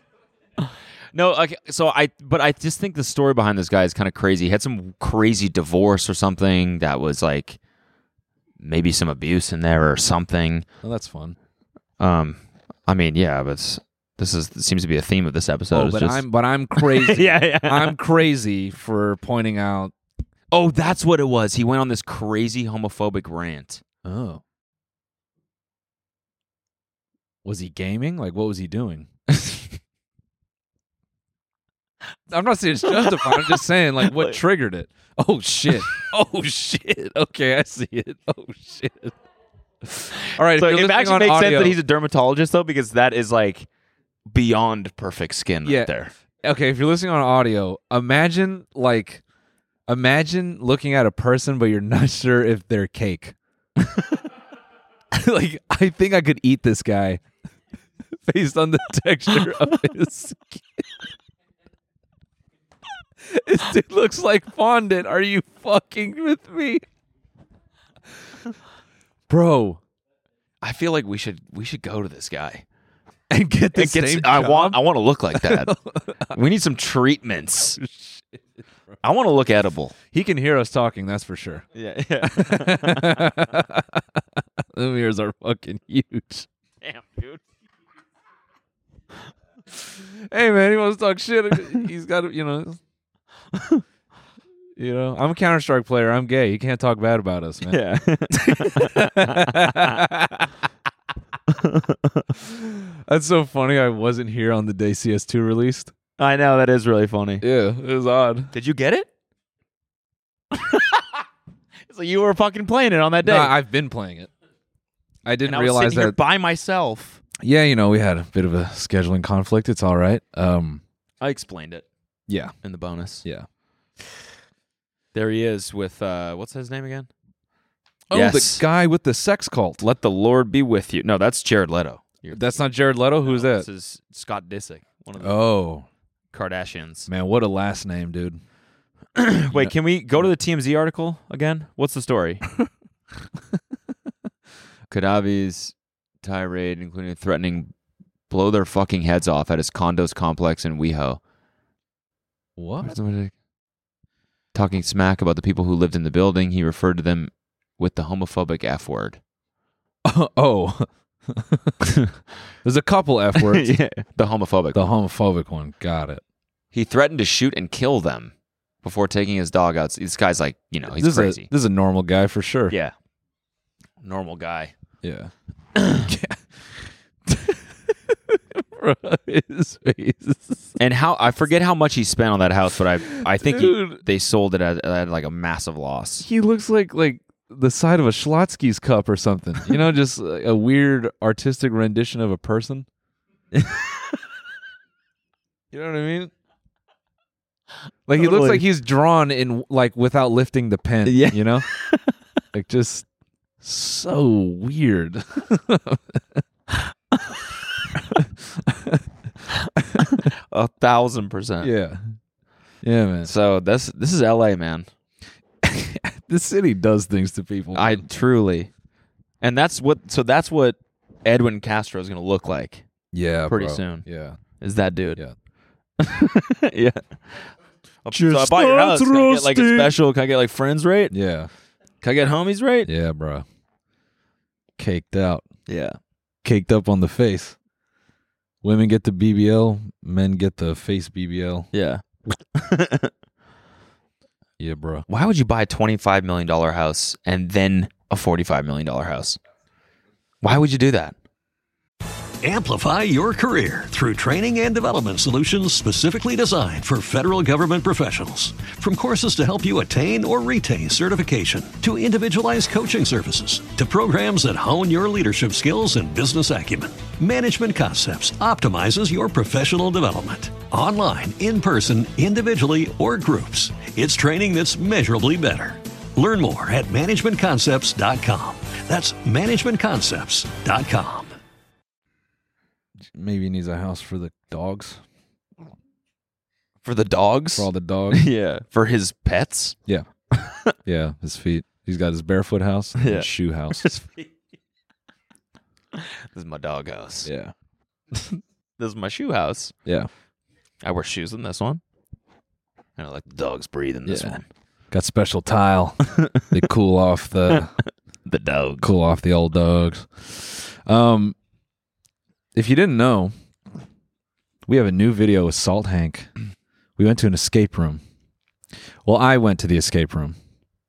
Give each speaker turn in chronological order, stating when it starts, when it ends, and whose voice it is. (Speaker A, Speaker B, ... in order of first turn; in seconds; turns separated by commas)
Speaker A: 0.6-7.6, Speaker A: 8.6-10.6, Speaker B: 10.8-11.4, Speaker A: 12.0-16.2, Speaker B: 15.7-19.9, Speaker A: 16.8-17.9, Speaker A: 20.5-23.8, Speaker B: 24.0-24.4, Speaker B: 27.4-29.1, Speaker B: 32.3-39.1, Speaker A: 32.9-34.4, Speaker B: 39.9-41.8, Speaker A: 40.2-43.7, Speaker A: 44.3-46.1, Speaker B: 45.6-49.2, Speaker B: 49.9-53.3, Speaker B: 55.1-57.2, Speaker B: 58.2-60.8, Speaker B: 63.2-66.8, Speaker B: 69.3-69.8, Speaker A: 70.6-72.6, Speaker B: 73.3-76.4, Speaker A: 73.7-75.7, Speaker A: 76.3-77.8, Speaker B: 77.8-79.0, Speaker A: 79.0-80.0, Speaker B: 80.1-81.7, Speaker A: 81.7-83.3, Speaker B: 82.2-86.5, Speaker A: 86.8-87.4, Speaker B: 89.9-92.8, Speaker A: 93.5-93.8, Speaker B: 94.8-97.8, Speaker A: 97.7-100.0, Speaker B: 98.4-100.5, Speaker A: 101.5-102.3, Speaker B: 102.4-105.9, Speaker A: 106.2-107.4, Speaker B: 107.4-108.5, Speaker A: 108.5-109.1, Speaker A: 110.5-111.2, Speaker A: 111.9-113.5, Speaker B: 113.2-114.3, Speaker B: 115.2-116.2, Speaker A: 115.5-117.2, Speaker B: 117.4-120.8, Speaker A: 121.2-121.9, Speaker B: 122.3-122.5, Speaker A: 122.6-123.2, Speaker A: 125.1-127.1, Speaker B: 128.1-129.8, Speaker A: 128.1-128.6, Speaker A: 129.8-132.6, Speaker B: 132.3-133.7, Speaker A: 133.2-135.4, Speaker B: 135.2-135.8, Speaker A: 136.3-137.1, Speaker B: 137.1-138.4, Speaker A: 139.2-142.4, Speaker A: 144.9-147.7, Speaker A: 148.3-151.2, Speaker B: 152.6-153.0, Speaker A: 152.8-153.3, Speaker A: 154.5-159.2, Speaker B: 160.0-161.9, Speaker B: 162.6-163.7, Speaker A: 163.3-164.9, Speaker B: 164.7-166.2, Speaker A: 166.7-171.5, Speaker B: 170.9-172.8, Speaker A: 174.0-174.7, Speaker B: 175.0-175.3, Speaker A: 175.8-176.1, Speaker B: 176.0-180.7, Speaker A: 180.8-186.3, Speaker B: 183.2-184.0, Speaker B: 186.2-192.9, Speaker A: 193.5-194.0, Speaker B: 195.7-196.3, Speaker B: 198.1-201.7, Speaker A: 198.1-198.7, Speaker A: 201.0-202.1, Speaker B: 202.5-203.0, Speaker B: 203.6-206.4, Speaker B: 208.1-209.0, Speaker B: 209.8-210.3, Speaker A: 210.0-211.7, Speaker B: 211.6-212.1, Speaker B: 212.8-213.3, Speaker A: 213.2-214.9, Speaker B: 215.6-218.1, Speaker A: 217.7-218.7, Speaker A: 219.4-222.8, Speaker B: 223.1-224.4, Speaker A: 223.5-224.0, Speaker A: 224.6-225.2, Speaker A: 226.0-227.0, Speaker A: 228.0-231.1, Speaker B: 228.1-229.9, Speaker B: 231.1-231.5, Speaker A: 232.0-232.9, Speaker B: 232.8-233.4, Speaker B: 234.8-235.4, Speaker A: 235.7-236.0, Speaker B: 236.4-237.6, Speaker B: 238.6-241.7, Speaker A: 241.7-242.0, Speaker A: 242.5-243.1, Speaker B: 244.6-245.1, Speaker A: 245.1-249.4, Speaker A: 250.4-251.1, Speaker C: 252.4-281.4, Speaker B: 283.1-285.0, Speaker A: 286.8-289.8, Speaker B: 287.6-288.3, Speaker A: 290.3-290.7, Speaker B: 290.8-293.9, Speaker A: 293.0-294.3, Speaker A: 295.9-297.3, Speaker B: 297.2-297.5, Speaker A: 298.1-299.7, Speaker A: 300.8-301.8, Speaker A: 303.0-304.4, Speaker B: 304.1-304.4, Speaker B: 304.9-307.7, Speaker A: 308.2-308.9, Speaker B: 308.8-311.3, Speaker B: 312.5-313.3, Speaker B: 314.6-316.3, Speaker B: 317.0-318.0, Speaker B: 319.0-320.4